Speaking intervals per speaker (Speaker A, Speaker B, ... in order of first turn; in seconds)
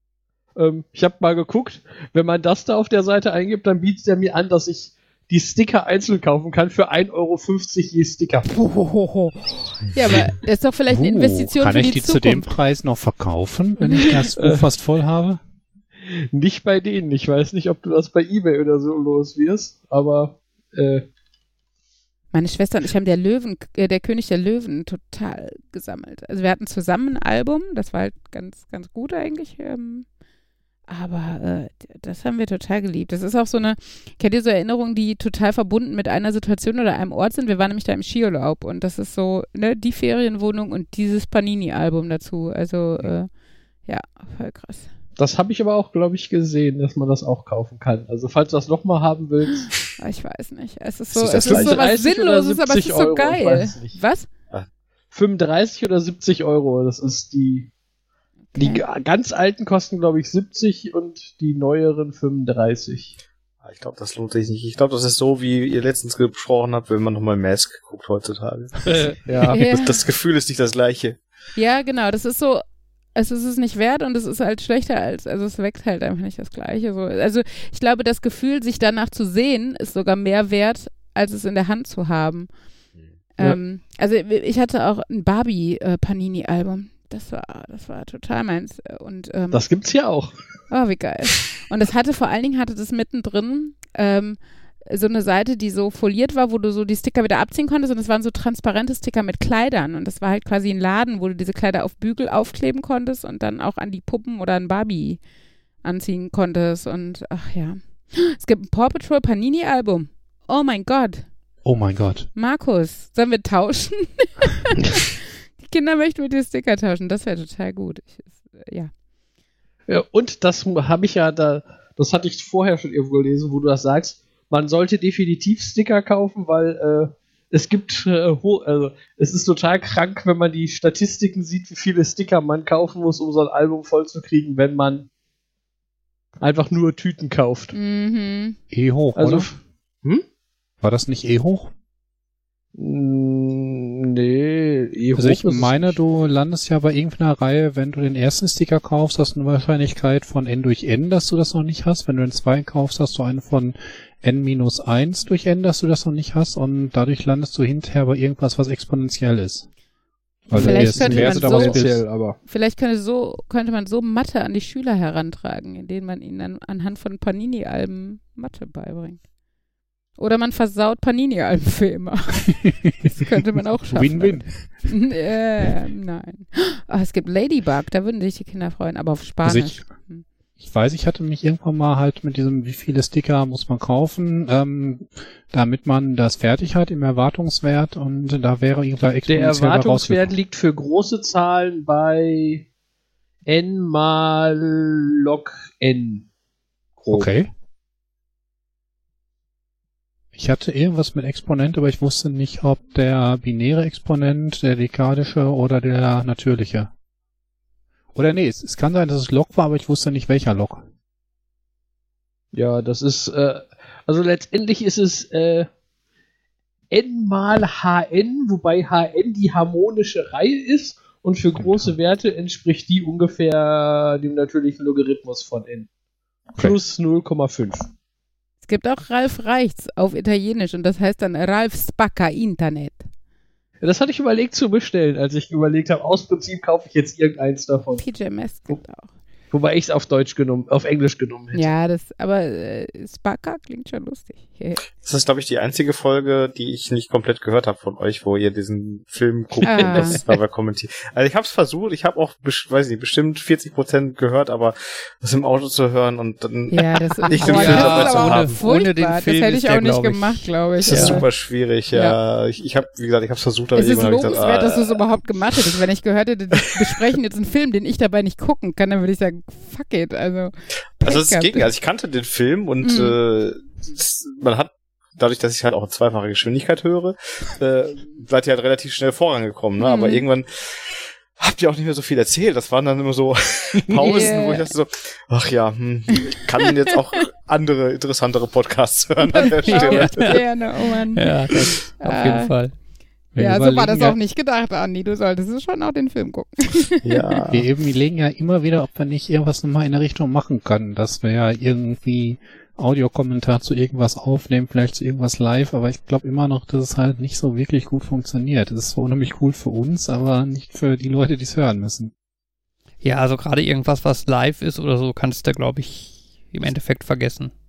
Speaker A: 0.6-8.5, 14.4-14.7, 16.3-21.1, 45.2-49.7, 51.3-54.0, 55.1-57.7, 58.5-63.1, 68.9-69.6, 89.5-90.3, 119.9-135.1, 136.4-137.7, 139.1-140.2, 142.8-145.9, 160.5-162.4, 189.2-192.7, 193.4-196.3, 197.0-197.4, 212.5-215.7, 216.9-225.9, 226.6-227.8, 233.8-238.1, 239.5-241.7
Speaker B: 8.4-12.6, 13.8-14.1, 22.3-30.1, 30.9-43.3, 43.8-44.9, 50.0-54.3, 58.5-58.8, 69.5-70.0, 71.5-72.6, 73.1-82.5, 83.4-89.6, 90.7-105.2, 105.8-111.3, 112.3-118.9, 137.7-138.6, 160.5-169.2, 170.2-180.2, 228.6-233.0, 238.0-239.1, 241.5-244.8, 249.6-250.2, 256.7-261.3, 261.9-262.2, 263.7-271.7, 272.8-273.1, 279.8-280.2, 284.0-284.7, 289.3-292.6, 293.4-297.4
Speaker C: 10.9-15.4, 111.6-112.3, 138.7-139.5, 140.8-141.7, 145.1-159.7, 160.5-162.1, 173.9-174.8, 179.4-179.9, 180.6-190.3, 197.1-197.5, 200.3-206.9, 208.1-210.8, 221.6-221.9, 293.3-294.1, 297.5-312.1
Speaker D: 51.1-51.8, 63.6-71.2, 245.0-258.6, 260.8-265.0, 271.0-290.4, 297.0-297.6
Speaker E: 257.4-261.2, 289.6-292.7, 313.0-317.5